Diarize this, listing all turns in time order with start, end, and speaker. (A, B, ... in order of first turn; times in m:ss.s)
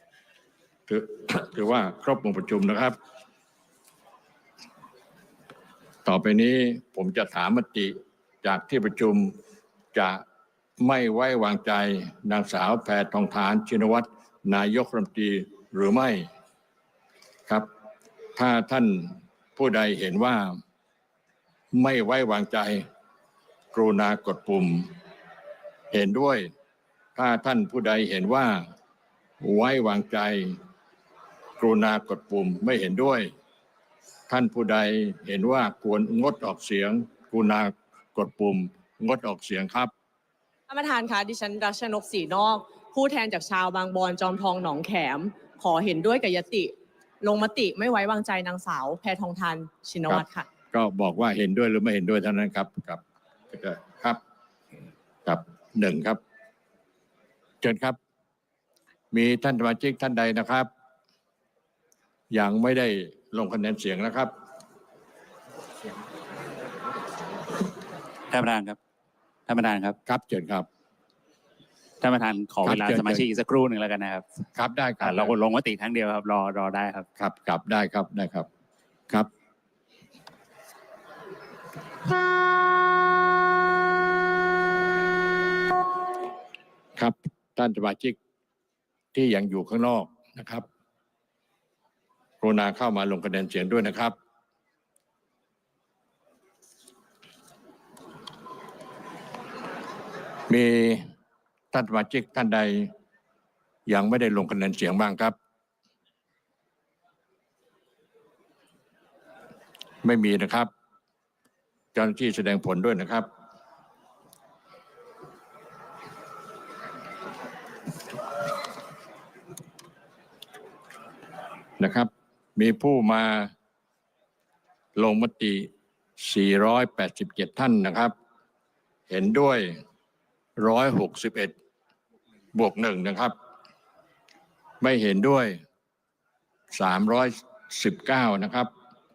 0:00.9-0:03.0 A
0:06.0-0:09.3 A
0:09.9-0:10.2 A
0:10.8-0:16.3 A
0:18.4-0:20.6 A
0:21.7-0:22.8 A
0:23.7-0:24.9 A
0:25.9-0:26.5 A
0:27.2-0:28.6 A
0:29.4-0:30.6 A
0:31.6-0:33.3 A
0:34.3-0:39.9 A
0:40.7-0:50.4 B
0:50.1-0:54.2 A
0:55.2-0:56.2 A
0:57.6-0:58.0 A
0:59.1-1:00.7 A
1:02.3-1:04.3 A
1:08.3-1:08.8 C
1:09.5-1:10.0 C
1:10.0-1:10.7 A
1:12.0-1:14.2 C
1:12.6-1:13.2 A
1:14.5-1:15.3 A
1:15.0-1:17.0 C
1:17.2-1:18.5 A
1:27.0-1:28.2 A
1:29.1-1:30.6 A
1:32.4-1:34.1 A
1:40.5-1:41.0 A
1:41.7-1:42.9 A
1:43.8-1:45.3 A
1:50.0-1:50.7 A
1:51.9-1:53.3 A
2:01.8-2:03.5 A
2:05.0-2:05.7 A
2:06.2-2:08.1 A
2:09.1-2:09.8 A
2:10.6-2:11.5 A
2:12.5-2:13.3 A
2:14.8-2:15.6 A
2:16.7-2:18.7 A